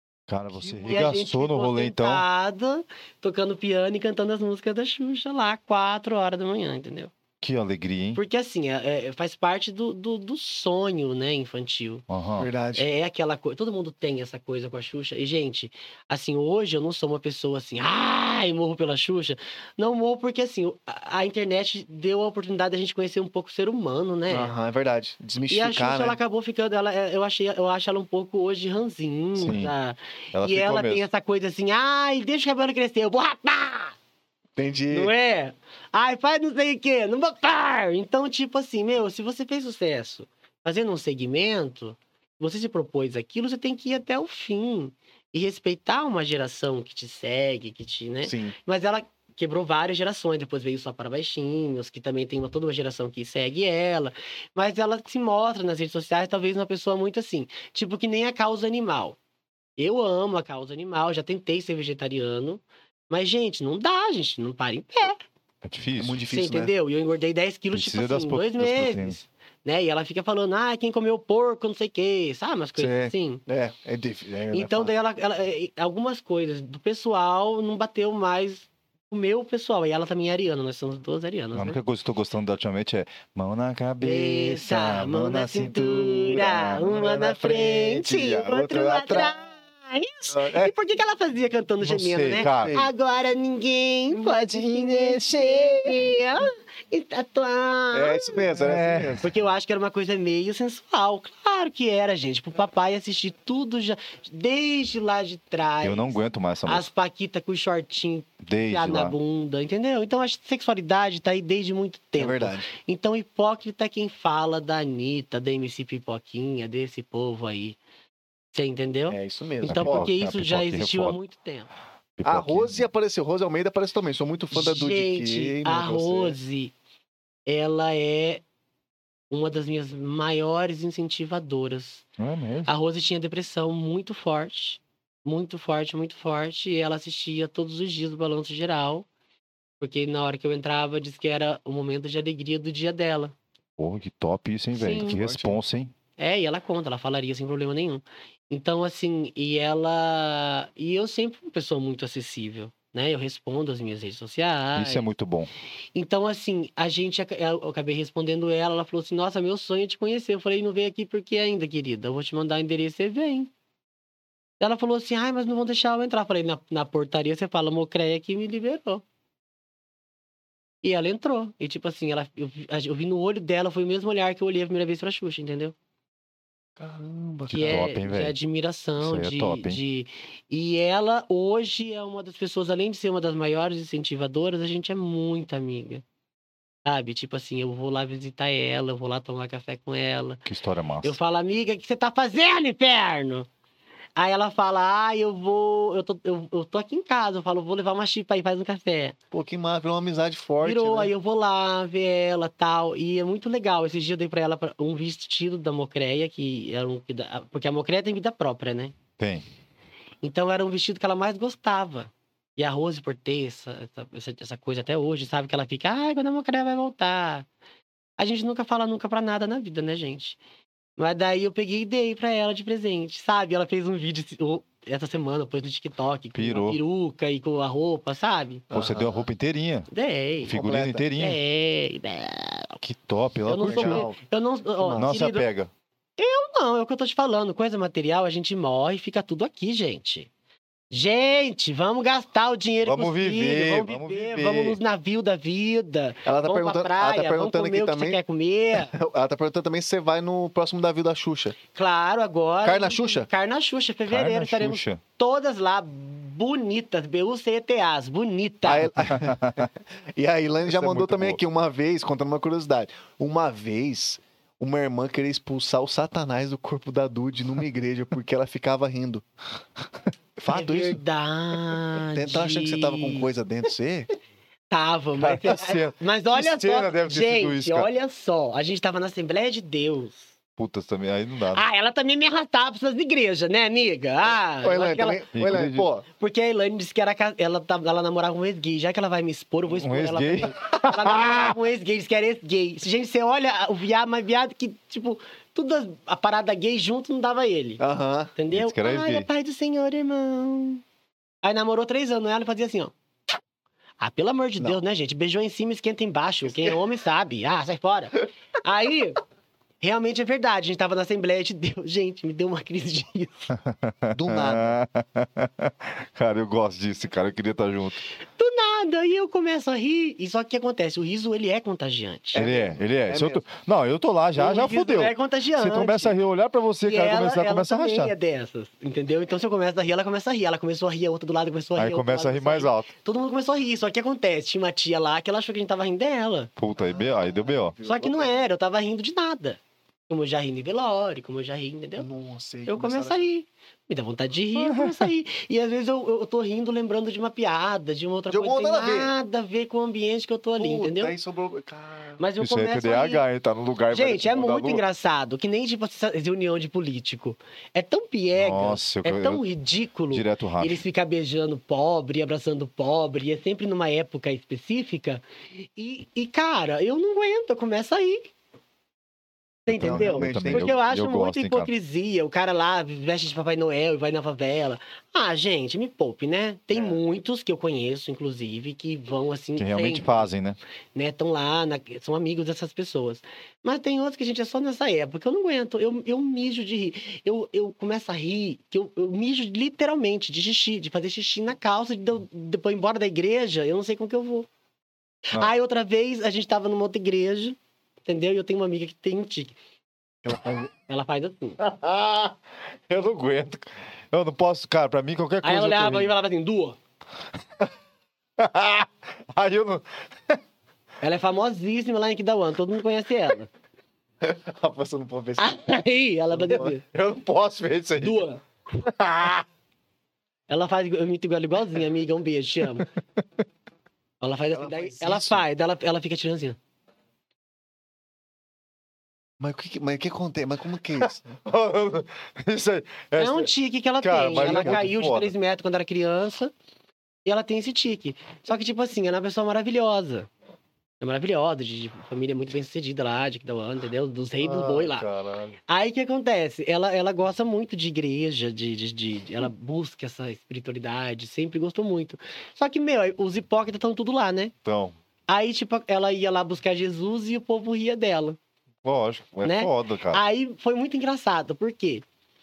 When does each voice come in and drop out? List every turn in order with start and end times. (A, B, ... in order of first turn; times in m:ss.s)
0:00.3-0:02.2 A
0:00.6-0:01.2 B
0:00.8-0:07.1 C
0:07.4-0:08.2 A
0:08.1-0:12.0 C
0:12.1-0:12.5 A
0:12.4-0:12.8 B
0:12.8-0:24.5 C
0:24.3-0:26.2 B
0:25.5-0:34.0 C
0:29.4-0:29.7 A
0:30.3-0:31.0 A
0:34.6-0:35.1 B
0:34.9-0:59.2 C
0:48.2-0:48.6 B
0:59.8-1:05.2 C
1:05.6-1:06.2 A
1:06.0-1:06.7 B
1:06.3-1:13.4 C
1:07.7-1:09.2 A
1:13.5-1:14.9 B
1:14.5-1:21.8 C
1:21.5-1:29.3 A
1:24.0-1:38.4 C
1:28.7-1:29.3 B
1:30.3-1:30.7 B
1:31.8-1:32.8 A
1:32.4-1:32.9 B
1:34.1-1:36.1 B
1:37.9-1:39.3 B
1:38.5-1:39.2 A
1:39.2-1:57.8 C
1:45.8-1:46.9 A
1:48.4-1:49.2 A
1:52.2-1:52.7 B
1:58.5-2:01.7 C
1:59.1-2:00.1 B
1:59.6-2:01.2 A
2:02.2-2:02.8 A
2:02.2-2:06.4 B
2:04.5-2:06.7 C
2:07.5-2:08.4 C
2:09.3-2:12.0 C
2:12.2-2:12.7 A
2:12.6-2:19.0 C
2:19.8-2:23.3 C
2:23.8-2:25.9 A
2:24.7-2:25.2 C
2:25.0-2:25.6 B
2:26.2-2:35.1 C
2:34.8-2:35.5 A
2:35.9-2:43.5 C
2:44.6-2:49.0 C
2:50.8-2:55.7 C
2:56.8-2:57.8 B
2:57.5-3:06.0 C
2:57.5-2:58.4 A
2:59.0-2:59.8 A
3:06.8-3:10.4 C
3:10.5-3:11.2 A
3:11.0-3:13.5 C
3:14.2-3:19.2 C
3:19.3-3:21.1 B
3:20.6-3:28.9 C
3:29.2-3:29.4 A
3:30.2-3:37.5 C
3:38.2-3:40.4 C
3:41.0-3:48.7 C
3:46.3-3:46.8 A
3:48.7-3:49.3 B
3:48.7-3:49.9 A
3:49.9-3:50.5 C
3:50.4-3:51.4 A
3:50.5-3:51.0 B
3:51.2-3:52.8 C
3:52.8-3:54.1 A
3:53.5-3:55.4 C
3:53.6-3:54.2 B
3:54.8-3:55.1 B
3:55.0-3:55.7 A
3:56.2-4:00.3 C
4:00.9-4:08.9 C
4:02.8-4:04.8 A
4:06.2-4:08.2 B
4:08.7-4:11.6 B
4:11.7-4:18.9 C
4:12.6-4:13.3 B
4:14.1-4:15.0 A
4:18.6-4:29.2 B
4:19.1-4:19.6 A
4:20.7-4:21.4 A
4:30.4-4:31.0 B
4:30.5-4:33.3 C
4:32.1-4:34.1 B
4:34.7-4:40.3 C
4:35.2-4:37.9 A
4:40.6-4:41.6 A
4:41.5-4:45.2 C
4:44.6-4:46.0 B
4:45.3-4:45.9 A
4:46.2-4:57.8 C
4:49.7-4:51.6 A
4:57.8-4:58.3 B
4:58.4-5:00.8 C
4:58.5-4:59.3 A
5:01.4-5:02.9 C
5:04.0-5:09.2 C
5:09.8-5:13.5 C
5:13.6-5:18.0 A
5:14.1-5:14.8 B
5:18.2-5:22.4 C
5:22.3-5:23.4 B
5:22.3-5:28.1 A
5:24.4-5:26.2 C
5:26.8-5:36.5 C
5:31.8-5:32.9 A
5:36.6-5:37.8 A
5:36.8-5:38.4 B
5:37.8-5:42.1 C
5:42.0-5:43.3 B
5:42.7-5:51.1 C
5:44.6-5:45.1 A
5:48.3-5:49.1 B
5:50.6-5:52.2 B
5:52.2-5:53.2 C
5:52.4-5:54.8 A
5:53.9-6:08.3 C
5:58.4-5:59.4 A
6:00.1-6:00.8 A
6:09.6-6:20.3 C
6:09.7-6:11.7 A
6:09.7-6:10.8 B
6:19.6-6:20.6 A
6:20.9-6:34.5 C
6:35.3-6:39.6 C
6:40.2-6:40.5 B
6:40.7-6:41.6 C
6:41.6-6:42.4 A
6:42.9-6:46.1 A
6:45.4-6:46.8 C
6:48.4-6:50.4 A
6:51.0-6:53.5 C
6:54.2-6:55.6 B
6:55.4-6:56.8 C
6:56.4-6:56.7 B
6:56.5-6:58.2 A
6:58.0-6:58.4 C
6:58.8-6:59.4 A
7:00.5-7:02.9 C
7:04.2-7:06.6 C
7:04.5-7:05.4 B
7:09.4-7:11.4 B
7:11.0-7:13.5 A
7:13.2-7:16.5 C
7:14.0-7:15.3 A
7:14.4-7:14.9 B
7:17.2-7:20.3 C
7:21.0-7:25.1 C
7:24.4-7:25.6 A
7:25.7-7:34.5 C
7:34.6-7:34.9 A
7:35.3-7:38.4 C
7:38.8-7:40.2 A
7:39.4-7:42.0 C